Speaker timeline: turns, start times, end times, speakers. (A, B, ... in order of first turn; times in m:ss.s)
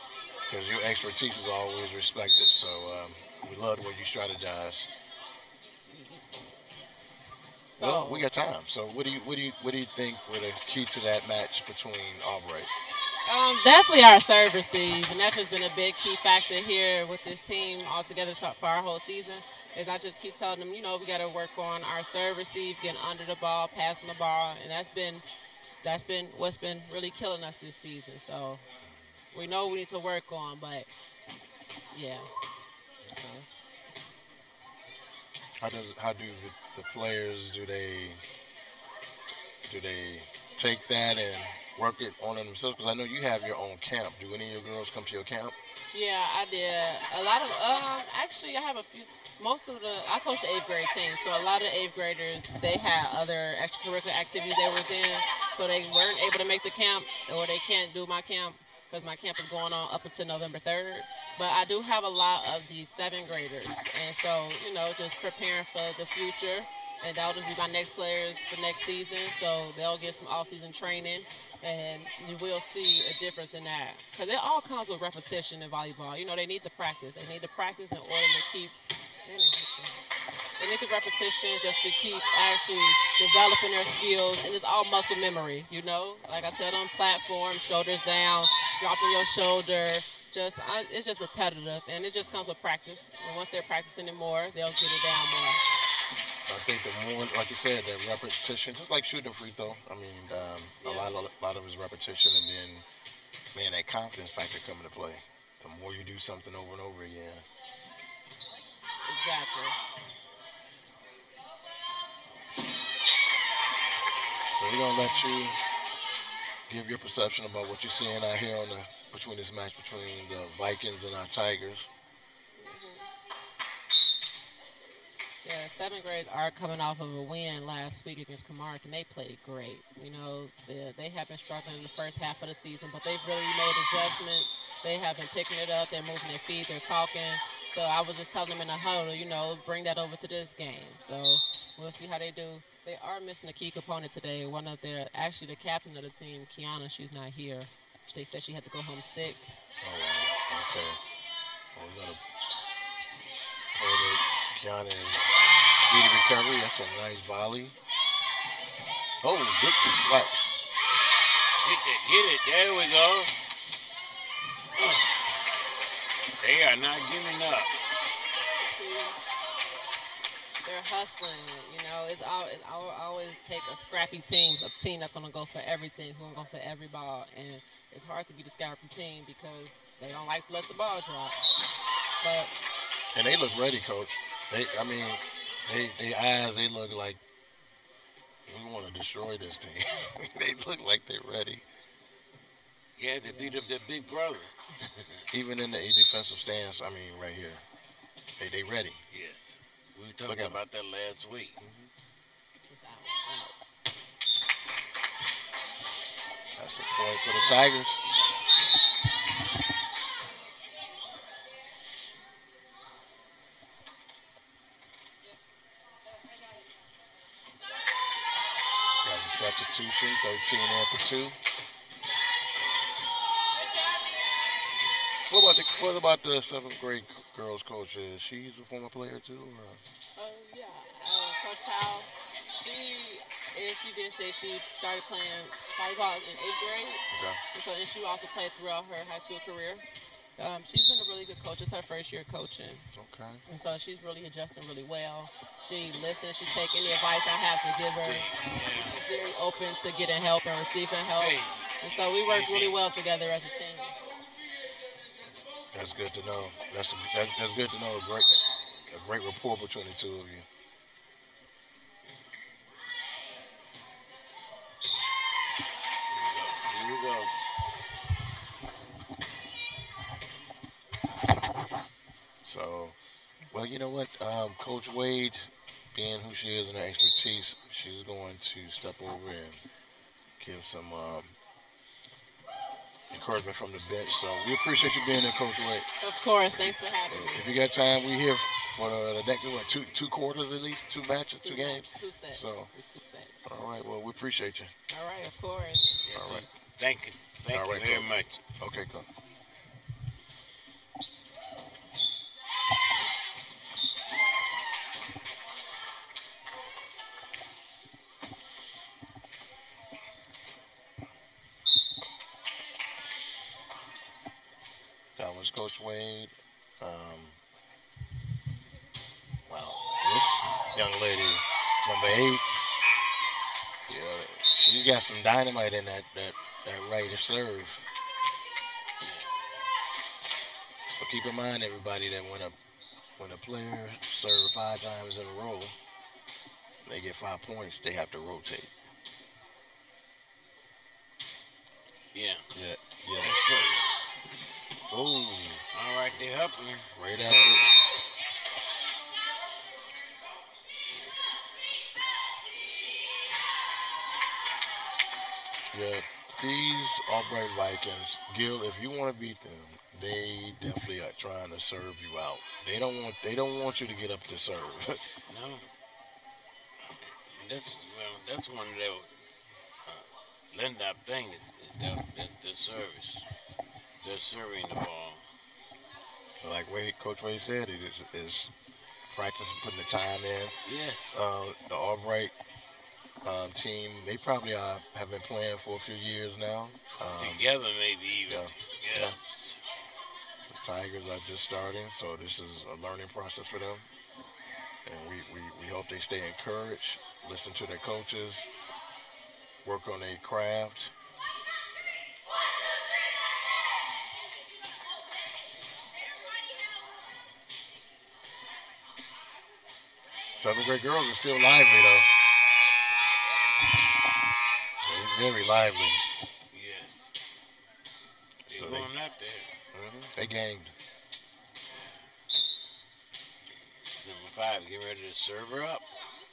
0:00.5-0:04.9 A
0:05.9-0:06.4 B
0:07.8-0:08.3 B
0:07.8-0:12.7 A
0:13.2-0:25.2 B
0:25.8-0:28.6 B
0:28.8-0:29.1 A
0:29.3-0:30.9 B
0:31.9-0:32.3 B
0:33.0-0:33.5 A
0:35.6-0:38.2 A
0:39.6-0:45.6 A
0:45.9-1:20.0 B
1:20.6-1:35.6 B
1:36.5-1:42.8 A
1:40.8-1:41.1 B
1:43.5-1:47.4 A
1:49.0-1:49.8 B
1:54.5-1:55.6 A
1:56.7-2:01.9 A
2:02.6-2:03.1 B
2:05.4-2:29.5 B
2:29.8-2:31.0 A
2:31.7-2:32.2 A
2:33.7-2:37.8 A
2:39.2-2:40.5 A
2:41.6-2:43.4 C
2:44.8-2:45.1 C
2:46.4-2:47.8 C
2:48.6-2:49.2 B
2:50.6-3:01.4 B
3:02.2-3:02.5 B
3:03.1-3:07.2 A
3:08.5-3:11.6 A
3:13.0-3:15.3 C
3:15.3-3:17.6 A
3:18.4-3:19.0 A
3:19.1-3:21.6 C
3:20.3-3:20.6 A
3:21.6-3:21.9 A
3:22.7-3:23.6 B
3:26.6-3:28.0 A
3:27.3-3:27.7 B
3:39.0-3:41.4 A
3:43.5-3:44.6 B
3:45.3-3:49.8 A
3:50.2-3:59.8 B
3:57.1-3:57.4 A
4:00.4-4:02.9 B
4:02.9-4:03.4 A
4:03.5-4:08.3 B
4:08.0-4:09.0 C
4:08.8-4:13.9 B
4:11.1-4:11.6 C
4:12.3-4:12.8 C
4:15.7-4:20.4 A
4:26.1-4:27.3 C
4:32.4-4:33.0 A
4:33.5-4:39.6 A
4:40.4-4:41.3 A
4:43.1-4:45.9 A
4:46.0-4:47.5 B
4:47.1-4:52.7 A
4:51.4-4:53.5 B
4:53.4-4:54.7 A
4:54.9-4:55.9 B
4:56.0-4:58.4 C
4:56.1-4:56.4 A
4:57.5-4:59.1 A
5:15.2-5:17.4 A
5:19.4-5:22.7 A
5:23.9-5:27.9 A
5:29.0-5:29.4 C
5:30.9-5:32.6 A
5:33.2-5:35.8 A
5:36.8-5:38.7 A
5:42.1-5:42.5 C
5:42.5-5:43.7 A
5:43.2-5:44.0 C
5:44.9-5:45.6 A
5:45.7-5:47.8 C
5:46.9-5:47.6 A
5:55.7-6:05.2 A
6:05.3-6:05.7 C
6:07.2-6:09.1 C
6:09.8-6:13.3 C
6:14.0-6:15.2 C
6:16.4-6:18.5 A
6:19.1-6:20.6 A
6:20.6-6:21.2 C
6:21.1-6:22.3 A
6:23.2-6:27.4 A
6:27.0-6:29.6 C
6:28.3-6:29.2 A
6:30.5-6:33.8 A
6:34.8-6:38.5 A
6:39.6-6:40.9 A
6:50.3-6:52.1 A
6:54.8-6:56.0 A
6:56.5-6:57.1 C
6:58.4-6:58.9 A
6:58.5-6:59.5 C
6:59.7-7:00.7 A
7:03.8-7:05.8 C